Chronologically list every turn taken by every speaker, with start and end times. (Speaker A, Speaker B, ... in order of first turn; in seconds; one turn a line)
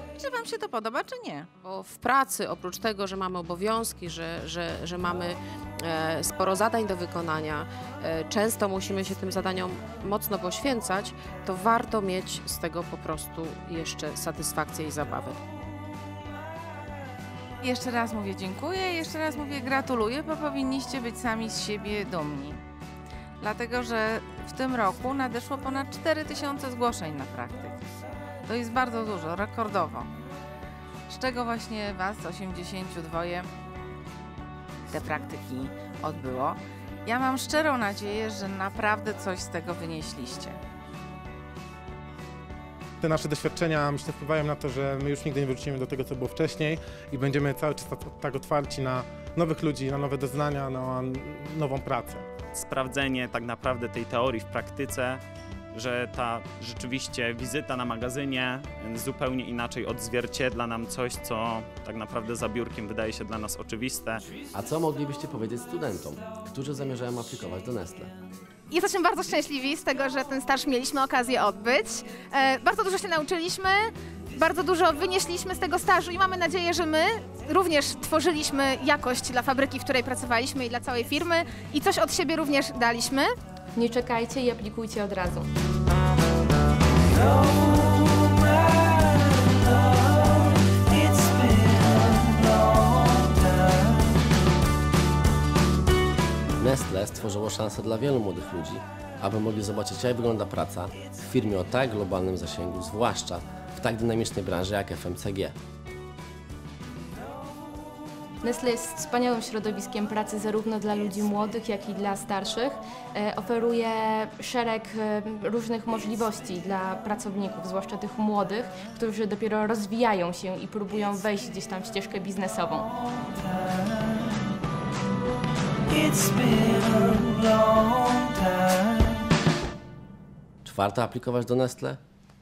Speaker A: 0.1-1.6
Speaker B: 1.6-15.4
Speaker A: 17.6-22.6
Speaker A: 23.4-27.8
Speaker A: 28.4-30.1
Speaker A: 31.1-33.5
Speaker A: 34.9-40.6
Speaker C: 43.0-52.2
Speaker D: 52.5-55.2
Speaker D: 55.7-64.2
Speaker E: 64.5-68.1
Speaker F: 68.7-83.3
Speaker G: 83.7-85.5
Speaker E: 96.6-105.5
Speaker G: 108.4-122.9
Speaker E: 130.6-132.0